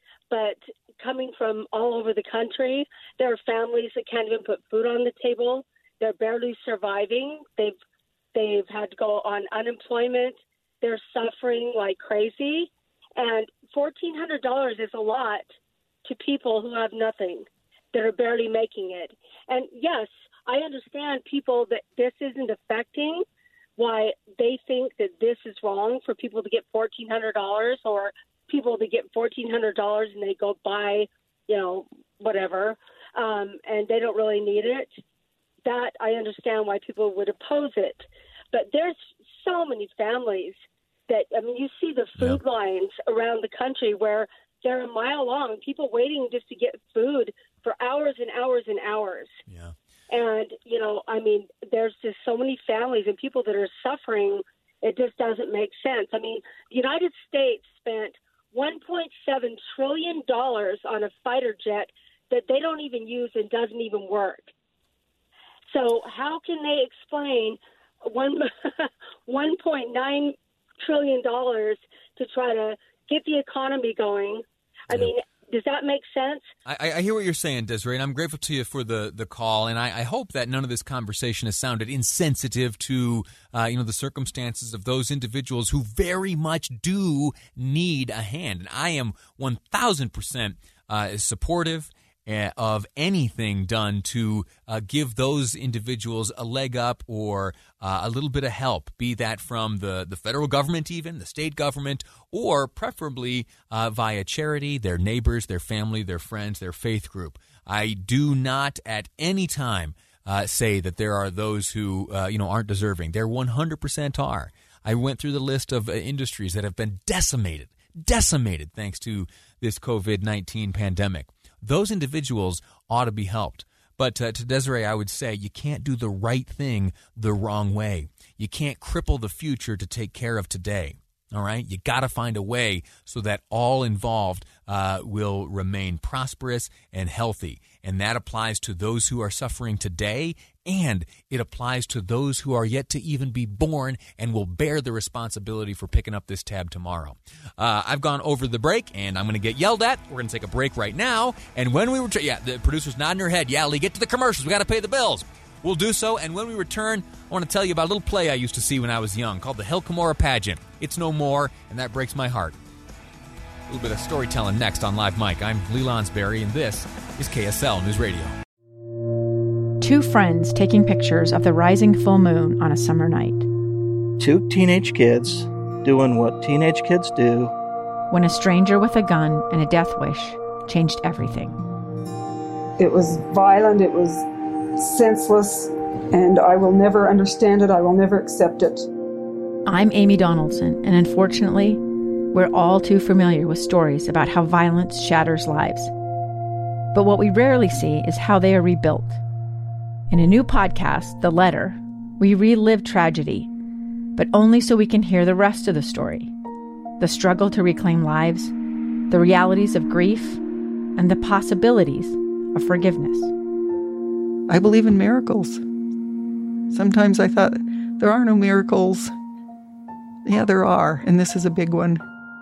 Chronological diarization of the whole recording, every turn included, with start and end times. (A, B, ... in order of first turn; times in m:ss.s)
0:00.3-0:07.7 A
0:08.3-0:15.5 A
0:16.0-0:23.2 A
0:23.8-0:35.0 A
0:35.6-0:49.4 A
0:49.5-0:49.7 B
0:50.1-1:04.5 A
1:05.7-1:16.5 A
1:16.6-2:42.5 B
2:43.7-2:48.3 B
2:49.8-2:53.4 C
2:54.2-2:57.5 D
2:58.1-3:01.6 C
3:02.8-3:04.2 E
3:04.8-3:08.9 E
3:09.6-3:11.8 C
3:12.3-3:15.9 C
3:16.9-3:19.2 C
3:20.1-3:23.5 C
3:24.2-3:26.3 C
3:27.0-3:28.5 C
3:29.1-3:30.4 C
3:31.0-3:33.3 C
3:34.5-3:35.6 F
3:36.7-3:39.1 F
3:40.2-3:42.0 F